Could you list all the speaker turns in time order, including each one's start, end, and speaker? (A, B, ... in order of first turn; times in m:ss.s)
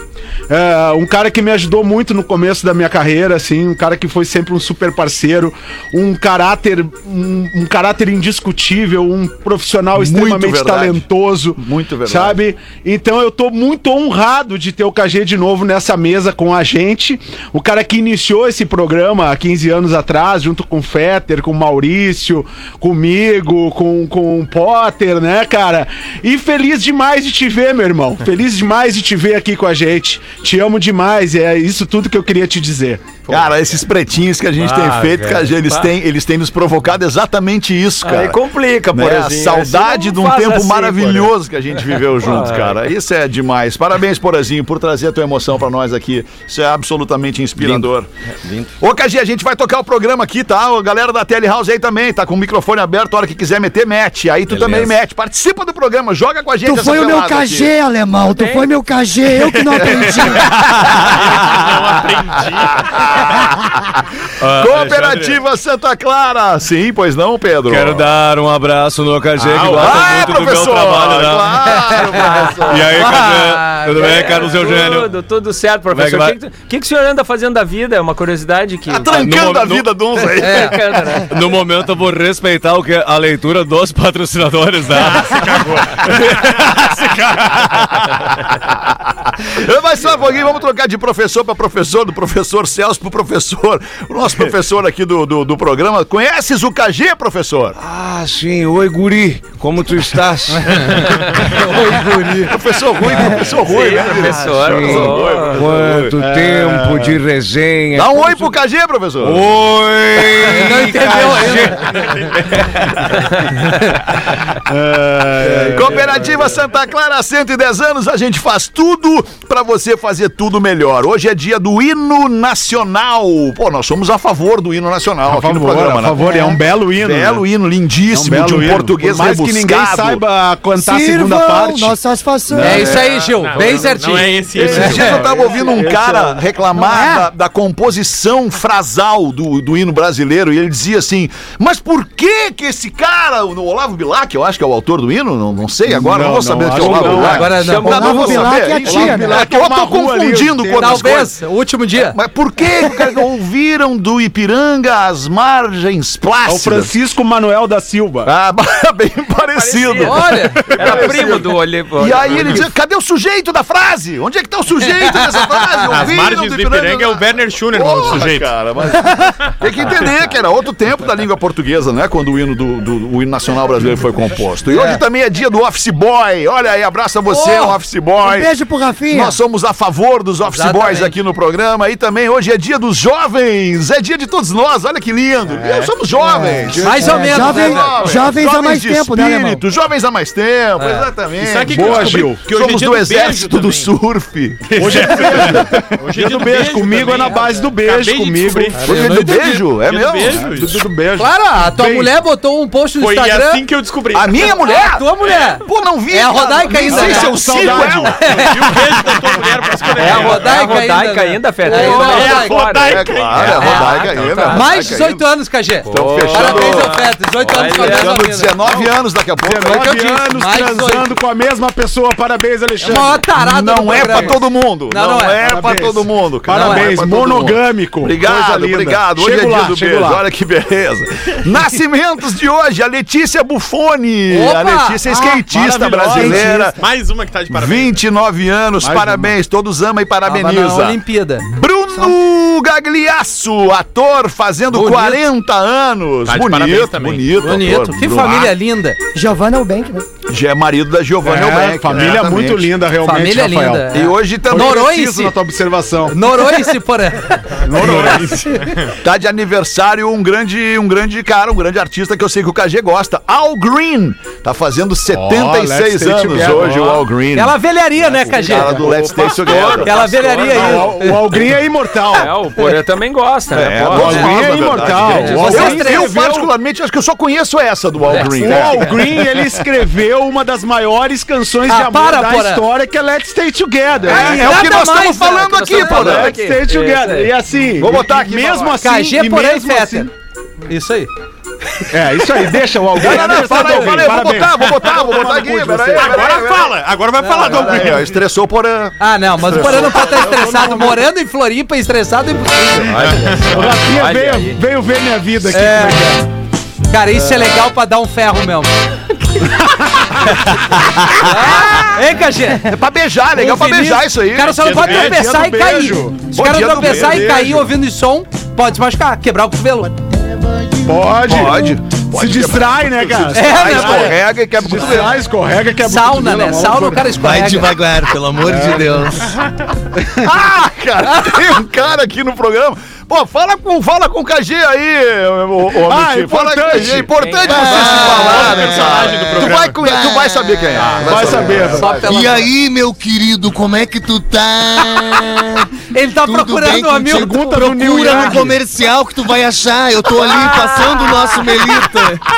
0:00.5-0:33.2 A
0:10.0-0:11.0 B
0:11.6-0:12.4 B
0:33.3-0:38.4 B
0:34.6-0:35.9 C
0:38.0-0:41.3 C
0:38.9-0:48.1 B
0:42.2-0:42.8 C
0:47.6-0:47.9 D
0:48.4-0:48.7 D
0:48.8-0:57.7 B
0:54.5-0:54.9 D
0:56.6-1:00.6 E
0:58.3-0:58.7 C
0:59.7-1:01.6 B
1:01.0-1:03.4 F
1:02.8-1:04.0 B
1:04.4-1:05.4 F
1:04.5-1:08.1 B
1:07.7-1:11.7 D
1:09.4-1:10.3 F
1:09.6-1:13.0 B
1:12.1-1:12.8 C
1:12.7-1:15.1 D
1:13.0-1:14.3 G
1:14.0-1:19.5 C
1:15.9-1:16.4 D
1:18.9-1:21.0 B
1:19.1-1:19.9 D
1:20.3-1:21.3 C
1:20.4-1:20.7 G
1:21.3-1:27.0 D
1:25.0-1:26.0 F
1:26.0-1:37.8 B
1:37.8-1:41.5 D
1:40.6-1:42.6 G
1:42.4-1:46.2 B
1:43.6-1:45.7 C
1:44.2-1:48.4 D
1:46.2-1:47.2 A
1:47.9-1:49.5 B
1:49.2-1:52.7 D
1:50.4-1:52.1 G
1:54.6-1:56.1 A
1:55.6-1:55.8 D
1:55.7-2:10.2 B
2:05.3-2:07.4 A
2:08.1-2:12.0 A
2:10.8-2:13.0 E
2:12.5-2:13.0 A
2:12.6-2:15.3 G
2:12.9-2:15.7 F
2:14.5-2:31.4 B
2:14.7-2:16.4 A
2:16.8-2:17.2 G
2:25.9-2:27.7 A
2:26.8-2:28.5 C
2:27.2-2:28.1 G
2:27.8-2:29.5 E
2:28.7-2:31.2 A
2:30.7-2:32.2 G
2:31.9-2:36.9 B
2:36.5-2:38.3 A
2:38.2-2:58.5 B
2:39.6-2:42.6 C
2:40.0-2:40.8 G
2:45.8-2:48.5 F
2:54.7-2:55.0 G
2:57.3-2:57.8 G
2:58.2-2:59.4 E
2:59.1-3:15.3 B
3:00.5-3:01.2 G
3:06.2-3:09.6 E
3:06.5-3:07.7 A
3:06.8-3:08.0 G
3:10.8-3:11.1 G
3:11.3-3:13.9 F
3:11.7-3:12.4 A
3:14.6-3:20.9 F
3:14.8-3:19.5 A
3:18.8-3:19.3 G
3:18.8-3:20.5 B
3:20.4-3:22.1 A
3:21.2-3:23.7 G
3:23.0-3:24.7 F
3:24.1-3:28.4 B
3:24.4-3:28.8 G
3:26.8-3:28.2 A
3:28.2-3:30.7 F
3:30.0-3:34.7 C
3:30.0-3:32.6 G
3:31.7-3:34.4 F
3:31.7-3:35.3 B
3:33.6-3:34.0 G
3:34.5-3:38.7 G
3:35.9-3:38.2 C
3:35.9-3:40.2 B
3:39.4-3:43.3 A
3:39.6-3:41.1 G
3:42.8-3:45.4 G
3:43.4-3:56.8 B
3:44.0-3:44.3 A
3:45.4-3:50.2 A
3:46.5-3:46.9 G
3:54.3-3:55.0 G
3:55.1-3:55.4 E
3:55.3-3:56.7 A
3:56.8-3:58.0 F
3:57.5-4:08.6 B
3:58.8-3:59.3 A
4:00.3-4:01.5 G
4:04.7-4:05.2 G
4:06.3-4:07.3 F
4:07.4-4:09.0 G
4:09.2-4:10.1 E
4:10.3-4:12.7 B
4:11.2-4:16.2 A
4:13.0-4:15.3 G
4:13.9-4:15.0 B
4:16.1-4:18.7 G
4:17.6-4:18.5 A
4:17.7-4:18.9 F
4:19.0-4:27.6 B
4:25.1-4:26.9 A
4:27.3-4:29.0 G
4:28.3-4:30.8 B
4:28.5-4:28.9 A
4:28.9-4:30.8 C
4:29.4-4:29.8 F
4:29.7-4:31.4 G
4:30.4-4:32.4 A
4:32.1-4:35.6 C
4:33.5-4:39.0 B
4:33.9-4:36.5 A
4:35.2-4:36.1 G
4:38.1-4:38.6 G
4:38.1-4:44.5 A
4:41.7-4:42.6 G
4:44.1-4:46.2 G
4:44.1-4:46.4 B
4:44.4-4:44.8 C
4:45.5-4:47.3 C
4:45.8-4:50.1 A
4:47.8-4:48.8 B
4:48.8-4:50.1 G
4:50.7-4:51.1 G
4:51.9-4:56.2 A
4:53.0-5:00.5 B
4:55.9-4:58.2 F
4:57.2-4:57.7 G
4:59.0-5:03.2 G
5:00.3-5:01.0 A
5:02.9-5:04.6 C
5:03.1-5:03.6 F
5:03.5-5:06.2 A
5:05.5-5:06.2 G
5:06.9-5:08.7 G
5:11.1-5:12.7 G
5:11.2-5:14.8 B
5:13.3-5:20.0 G
5:14.5-5:15.3 F
5:14.8-5:16.3 A
5:16.3-5:17.6 B
5:20.8-5:27.2 A
5:21.2-5:25.2 B
5:23.3-5:24.2 G
5:25.8-5:27.8 G
5:27.2-5:29.4 H
5:28.4-5:29.2 A
5:30.1-5:42.2 B
5:35.8-5:38.1 A
5:37.1-5:38.2 C
5:37.5-5:38.1 H
5:37.8-5:38.5 G
5:37.9-5:39.9 F
5:39.8-5:40.8 H
5:41.0-5:42.1 A
5:41.2-5:42.5 G
5:42.0-5:52.2 H
5:45.9-5:48.5 G
5:47.1-5:48.6 A
5:50.4-5:51.3 C